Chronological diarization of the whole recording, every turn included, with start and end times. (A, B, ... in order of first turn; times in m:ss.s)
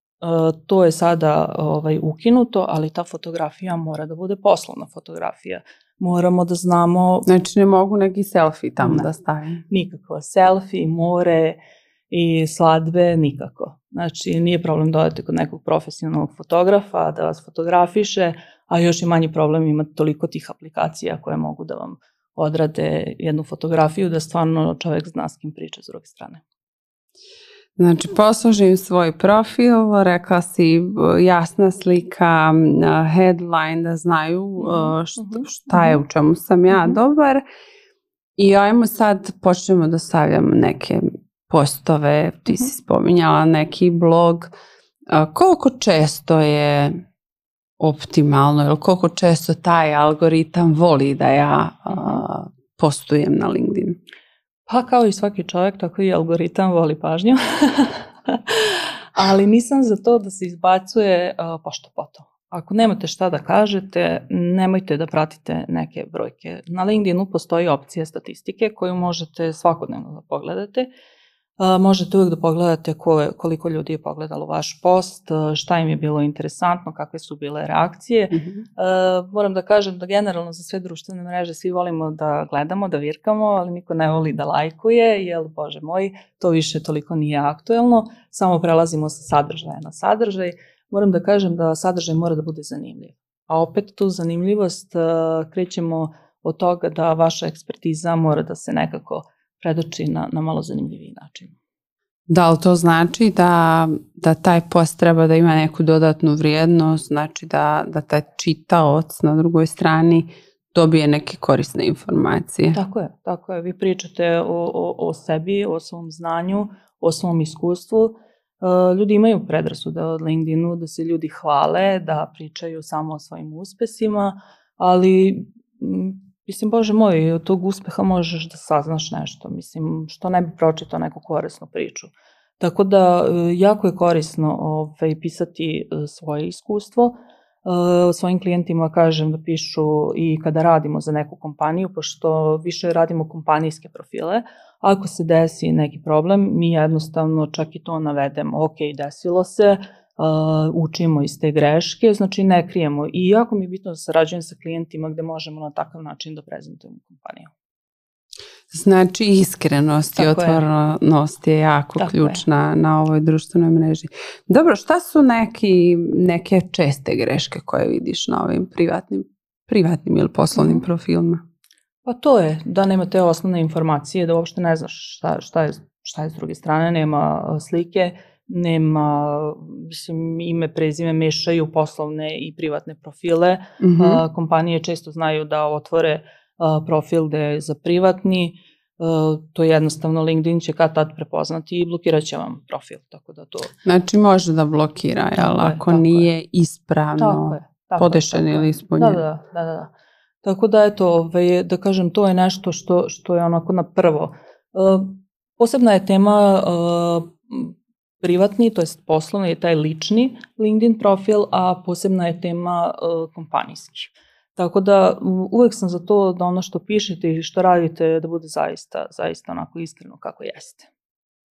0:00.2-0:07.3 A
0:07.3-0:09.6 B
0:08.8-0:09.1 A
0:09.7-0:11.6 A
0:12.1-0:26.4 A
0:27.8-0:37.4 B
0:34.6-0:36.0 A
0:36.7-0:37.0 A
0:38.4-0:44.5 B
0:45.1-0:46.9 B
0:47.8-0:54.0 B
0:51.9-0:52.2 A
0:54.7-1:10.9 A
1:11.6-1:41.5 A
1:18.3-1:18.6 B
1:42.3-1:52.8 B
1:52.7-2:37.5 A
2:38.7-2:51.4 B
2:40.1-2:40.6 A
2:42.0-2:42.4 A
2:50.5-2:50.8 A
2:52.0-3:13.7 A
3:03.8-3:04.2 B
3:13.8-3:19.2 B
3:15.4-3:16.3 A
3:17.2-3:19.9 A
3:20.4-3:40.9 A